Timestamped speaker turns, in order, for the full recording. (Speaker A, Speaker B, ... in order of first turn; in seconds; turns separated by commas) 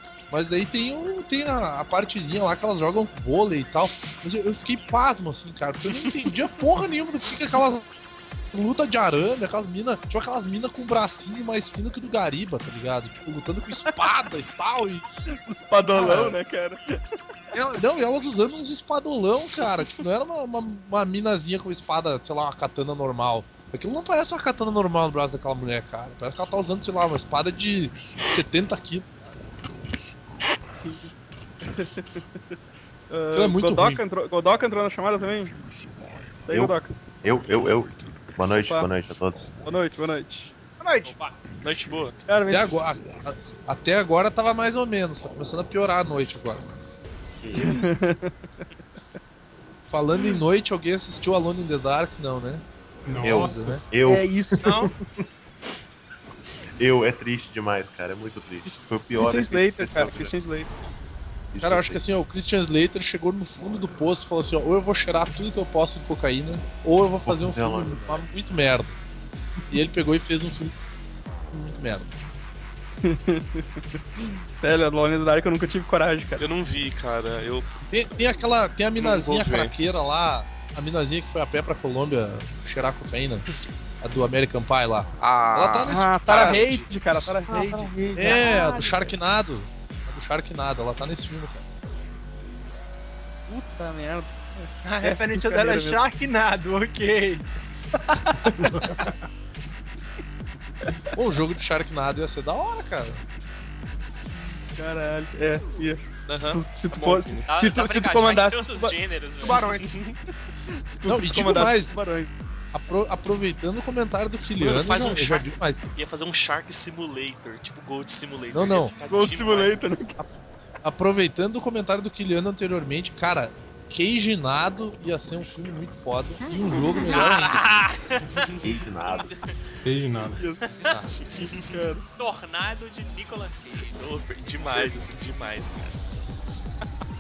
Speaker A: 0.3-7.8, Speaker A: 8.5-15.1, Speaker B: 15.3-17.0, Speaker A: 15.9-16.4, Speaker A: 17.5-29.1, Speaker B: 30.7-32.2, Speaker B: 33.1-35.5, Speaker A: 33.3-34.0, Speaker B: 36.5-36.9, Speaker C: 36.5-39.5, Speaker B: 38.6-38.9, Speaker B: 39.6-40.5, Speaker D: 40.8-41.2, Speaker E: 41.1-41.4, Speaker F: 41.6-42.2, Speaker B: 42.3-42.8, Speaker A: 42.5-46.7, Speaker C: 47.4-47.8, Speaker B: 47.6-48.4, Speaker A: 49.9-52.6, Speaker G: 53.1-53.8, Speaker C: 53.2-54.7, Speaker A: 53.2-53.8, Speaker B: 54.0-54.9, Speaker D: 54.6-54.9, Speaker C: 56.8-60.4, Speaker B: 58.7-60.7, Speaker C: 61.5-62.0, Speaker A: 61.6-69.0, Speaker C: 67.2-68.3, Speaker A: 69.7-70.8, Speaker A: 71.5-72.1, Speaker B: 73.0-76.5, Speaker F: 76.4-77.8, Speaker A: 77.9-83.5, Speaker F: 79.0-79.7, Speaker A: 84.0-86.6, Speaker F: 85.2-87.3, Speaker B: 85.9-88.5, Speaker D: 87.5-89.1, Speaker A: 88.2-91.7, Speaker B: 93.5-96.0, Speaker D: 94.8-97.5, Speaker D: 98.1-98.5, Speaker G: 98.6-99.1, Speaker A: 101.2-103.2, Speaker B: 104.8-109.7, Speaker F: 106.3-107.5, Speaker E: 107.5-109.6, Speaker D: 109.4-109.9, Speaker F: 109.7-110.2, Speaker B: 110.7-112.3, Speaker A: 111.1-112.0, Speaker A: 112.7-115.8, Speaker F: 114.6-119.9, Speaker A: 118.5-118.9, Speaker B: 119.1-120.2, Speaker A: 120.8-127.7, Speaker E: 127.0-128.5, Speaker F: 128.4-128.7, Speaker C: 128.6-129.4, Speaker G: 129.8-130.4, Speaker B: 130.2-130.7, Speaker A: 130.9-131.2, Speaker F: 131.2-131.7, Speaker B: 131.7-132.0, Speaker E: 132.2-134.0, Speaker F: 133.8-136.0